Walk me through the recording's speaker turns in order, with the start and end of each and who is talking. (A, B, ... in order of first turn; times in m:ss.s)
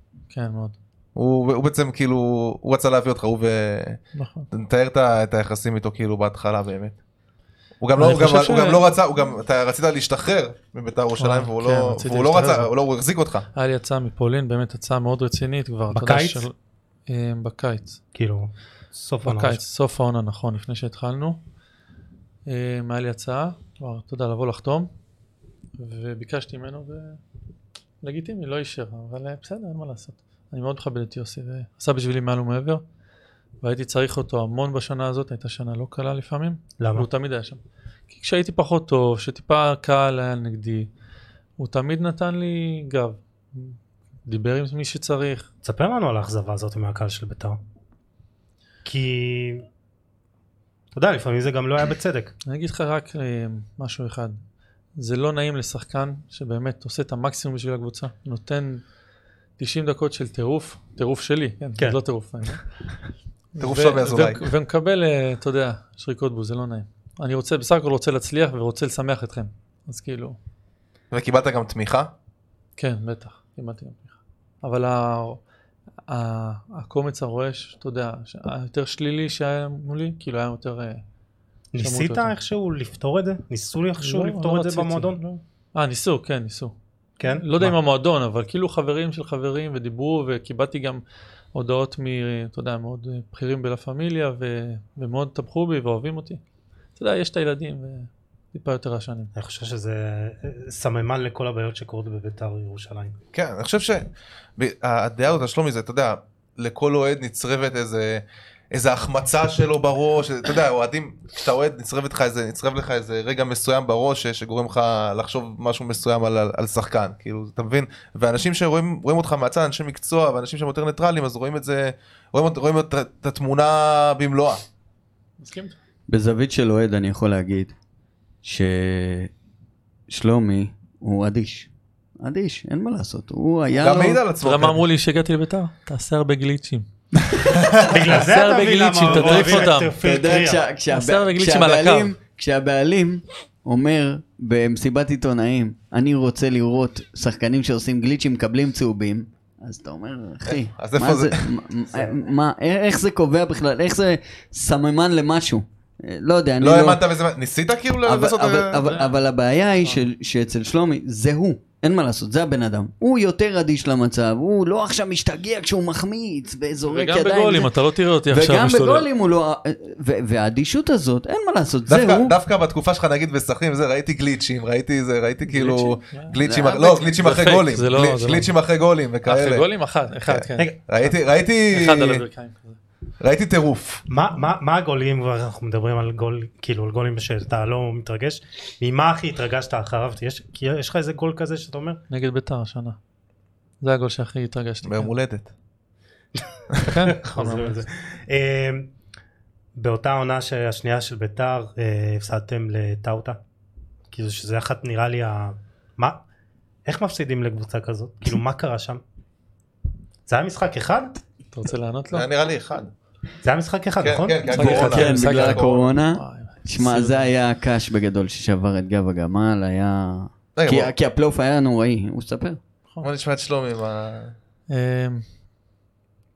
0:00.3-0:00.8 A
0:01.2-0:07.0 B
0:04.1-0:04.5 A
0:07.8-0:13.5 B
0:07.9-0:08.8 A
0:11.2-0:12.7 A
0:13.5-0:16.5 A
0:15.9-0:16.4 C
0:17.1-0:18.0 A
0:18.1-0:19.6 C
0:19.2-0:21.4 A
0:22.4-0:24.9 A
0:25.8-0:27.2 A
0:28.0-0:32.8 A
0:33.6-0:40.9 A
0:36.8-0:37.1 C
0:41.6-0:45.5 A
0:45.6-0:47.6 C
0:48.8-0:49.6 C
0:50.9-0:52.3 C
0:52.4-0:54.4 A
0:55.0-0:58.8 A
0:59.6-1:02.6 A
1:03.6-1:10.4 A
1:03.6-1:04.4 B
1:11.1-1:12.1 B
1:12.8-1:15.4 A
1:16.1-1:21.0 A
1:21.7-1:25.2 C
1:21.8-1:22.3 A
1:24.0-1:26.7 A
1:27.2-1:27.8 C
1:27.4-1:31.0 A
1:31.5-1:36.4 A
1:37.0-1:39.3 A
1:39.3-1:43.1 C
1:43.3-1:44.0 B
1:44.6-2:04.6 B
2:05.4-2:05.8 A
2:06.1-2:07.7 D
2:08.4-2:09.3 D
2:10.1-2:11.7 D
2:12.2-2:14.2 D
2:13.8-2:14.8 B
2:14.4-2:16.9 A
2:17.4-2:17.9 B
2:17.8-2:20.6 C
2:18.1-2:19.9 A
2:19.2-2:37.0 D
2:20.9-2:22.1 A
2:30.5-2:31.6 B
2:36.6-2:38.9 B
2:38.0-2:47.7 D
2:38.9-2:39.2 A
2:46.8-2:49.1 A
2:48.3-2:52.3 D
2:51.9-2:59.6 B
2:55.5-2:56.4 A
2:56.4-2:57.0 D
2:57.1-2:58.5 A
2:59.2-3:01.2 A
3:00.2-3:02.2 B
3:01.7-3:02.8 A
3:03.2-3:04.0 B
3:04.1-3:12.0 C
3:12.1-3:13.0 A
3:13.8-3:15.1 A
3:14.8-3:15.5 B
3:16.8-3:17.8 A
3:16.9-3:18.9 C
3:19.8-3:23.4 C
3:24.1-3:26.2 C
3:26.8-3:29.0 C
3:30.3-3:31.2 C
3:31.5-3:32.3 A
3:32.1-3:32.9 B
3:33.4-3:34.7 C
3:34.0-3:35.9 B
3:34.5-3:37.3 A
3:34.6-3:42.6 D
3:40.6-3:40.9 B
3:43.0-3:44.3 B
3:44.7-3:45.2 A